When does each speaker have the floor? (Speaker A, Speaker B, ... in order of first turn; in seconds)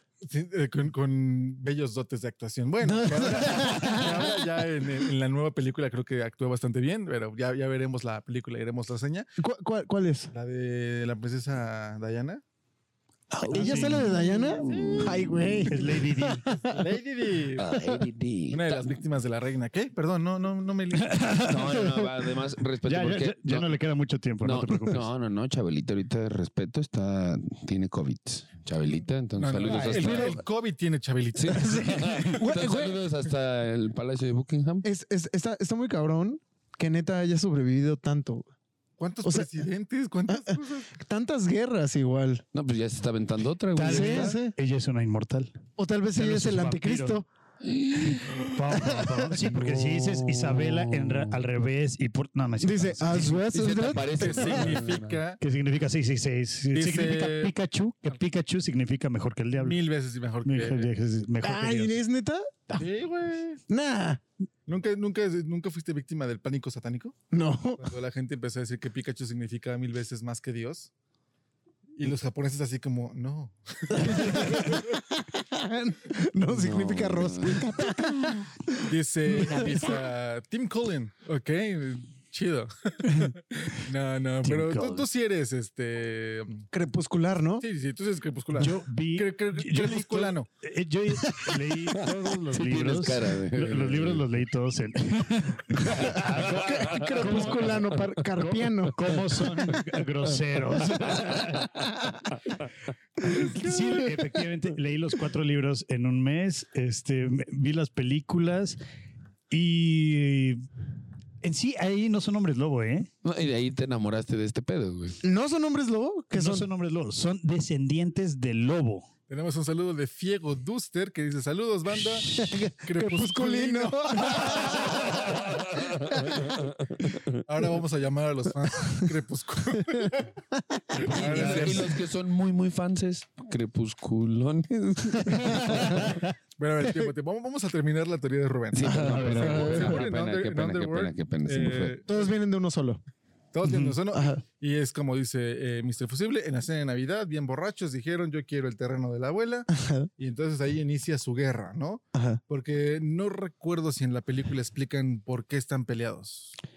Speaker A: 0.2-9.3, 10.3-12.4, 14.3-15.3, 16.7-17.8, 18.5-21.4, 29.4-32.3, 39.0-40.9, 54.1-55.4, 56.7-57.5, 59.6-60.9, 62.8-63.6, 64.7-67.2, 67.8-70.9, 72.0-75.0, 78.9-86.7, 87.6-90.5, 119.3-125.4, 127.4-130.3, 130.9-132.0, 135.5-142.3, 143.5-156.6
Speaker B: 2.8-4.5, 9.4-10.3, 13.3-16.9, 29.9-30.4, 31.6-33.0, 34.8-38.5, 39.2-39.5, 40.3-42.4, 43.8-44.5, 45.8-47.3, 48.8-49.5, 52.6-54.7, 61.4-62.5, 63.7-64.2, 67.3-67.9, 73.9-80.0, 86.7-87.7, 95.9-99.2, 115.2-116.7, 122.3-125.3, 126.0-126.4, 130.6-131.7, 134.9-136.2, 136.8-137.1, 138.9-139.8, 142.1-143.0, 144.1-144.4, 149.7-150.1, 152.1-152.4
Speaker C: 13.4-15.7, 17.6-19.0, 21.4-23.7, 24.4-30.4, 31.4-34.9, 42.5-44.4, 47.6-48.3, 49.5-51.4, 53.3-55.2, 76.5-77.7, 92.5-94.2, 96.8-97.4, 113.2-115.2, 126.5-126.8, 131.0-136.1, 138.7-142.0
Speaker D: 13.5-14.0, 15.7-16.5, 21.0-21.8, 22.9-25.1, 29.7-30.2, 43.8-45.6, 46.2-47.2, 48.2-53.4, 55.4-59.8, 60.4-62.0, 84.4-85.1, 88.6-102.0, 103.2-108.8, 109.5-110.6, 111.4-113.1, 116.3-119.1, 131.4-131.7, 139.0-140.0, 143.6-144.0